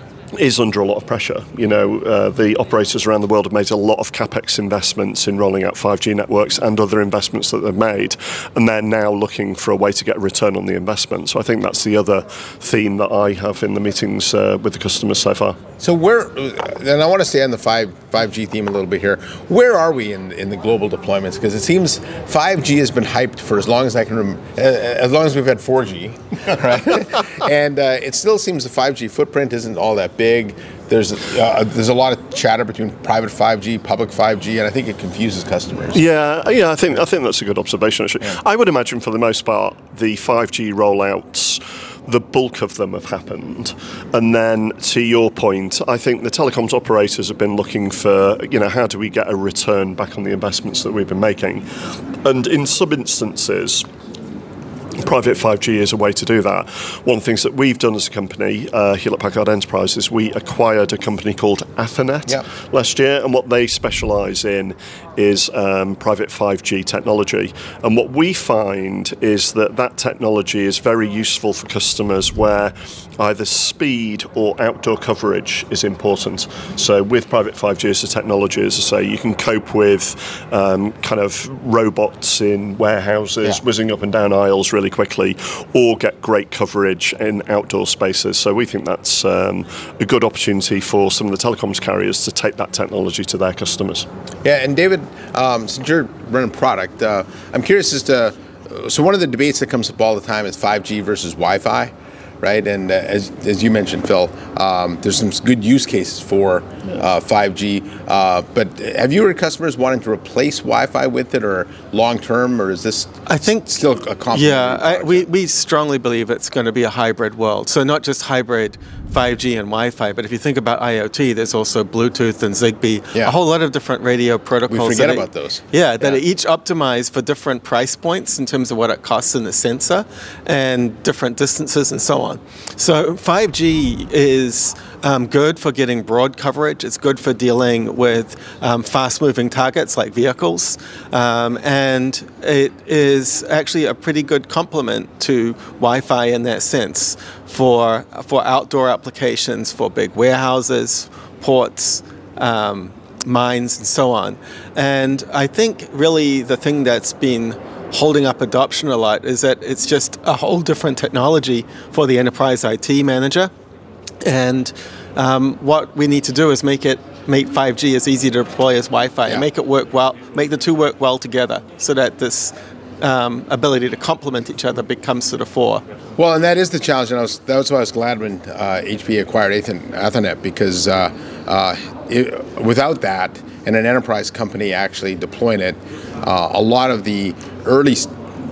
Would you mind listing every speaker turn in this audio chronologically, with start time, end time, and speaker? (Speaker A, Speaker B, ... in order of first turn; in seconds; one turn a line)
Speaker A: 0.4-15.6
Speaker B: 15.8-36.0
Speaker A: 35.9-51.6
Speaker A: 52.2-53.8
Speaker A: 55.0-94.1
Speaker B: 94.4-115.2
Speaker C: 113.3-113.7
Speaker C: 114.3-163.5
Speaker B: 124.7-126.2
Speaker C: 164.2-175.8
Speaker B: 176.2-188.1